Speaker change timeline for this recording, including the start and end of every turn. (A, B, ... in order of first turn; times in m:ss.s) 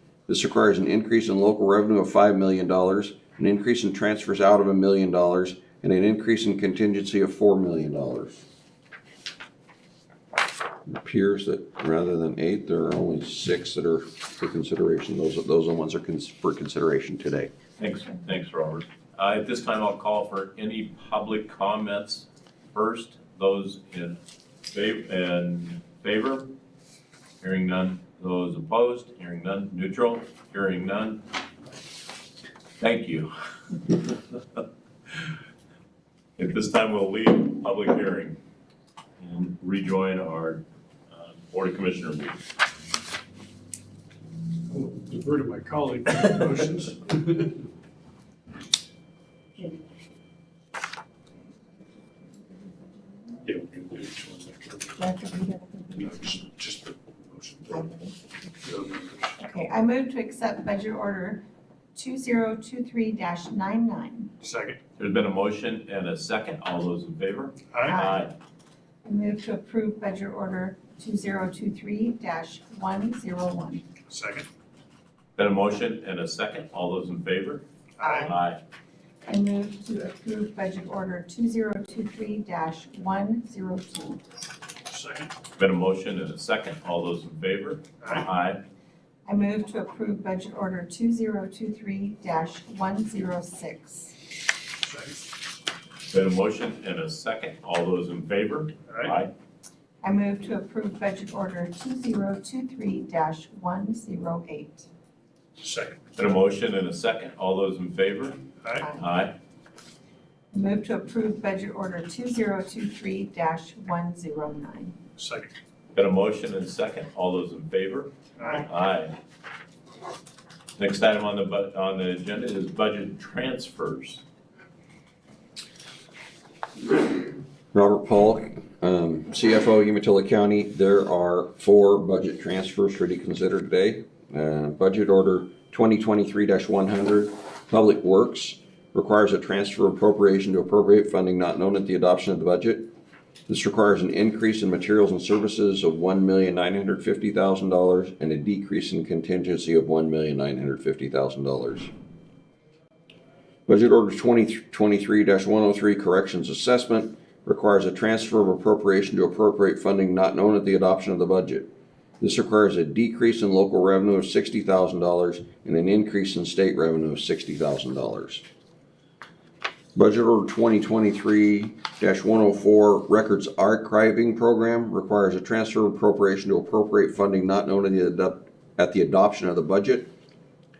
0:00.3-0:08.4 A
0:10.9-0:17.5 A
0:17.8-0:24.2 B
0:24.7-0:26.5 B
0:27.4-0:31.2 B
0:32.8-0:33.3 B
0:33.8-0:34.2 B
0:36.4-0:38.4 B
0:39.2-0:42.4 B
0:44.7-0:47.6 C
0:53.4-0:55.0 C
0:55.0-0:56.3 D
0:56.0-0:57.8 C
0:57.7-0:58.1 D
0:58.6-0:59.3 C
0:59.4-1:04.3 D
1:04.4-1:04.8 C
1:05.0-1:08.3 B
1:07.7-1:08.0 C
1:07.8-1:08.3 D
1:09.0-1:13.8 D
1:14.1-1:14.5 C
1:15.4-1:18.6 B
1:18.0-1:18.3 C
1:18.0-1:18.4 D
1:19.2-1:24.2 D
1:24.9-1:25.3 C
1:25.6-1:28.6 B
1:29.3-1:34.2 D
1:34.7-1:35.3 C
1:36.0-1:39.3 B
1:40.0-1:44.9 D
1:45.6-1:46.0 C
1:46.2-1:48.4 B
1:48.6-1:48.9 C
1:49.0-1:49.4 B
1:50.5-1:55.0 D
1:55.2-1:55.5 C
1:55.9-1:59.2 B
1:58.4-1:58.7 C
2:00.8-2:04.2 B
2:07.7-2:22.9 A
2:23.5-2:31.9 A
2:33.7-2:41.7 A
2:42.2-2:48.4 A
2:49.9-3:00.1 A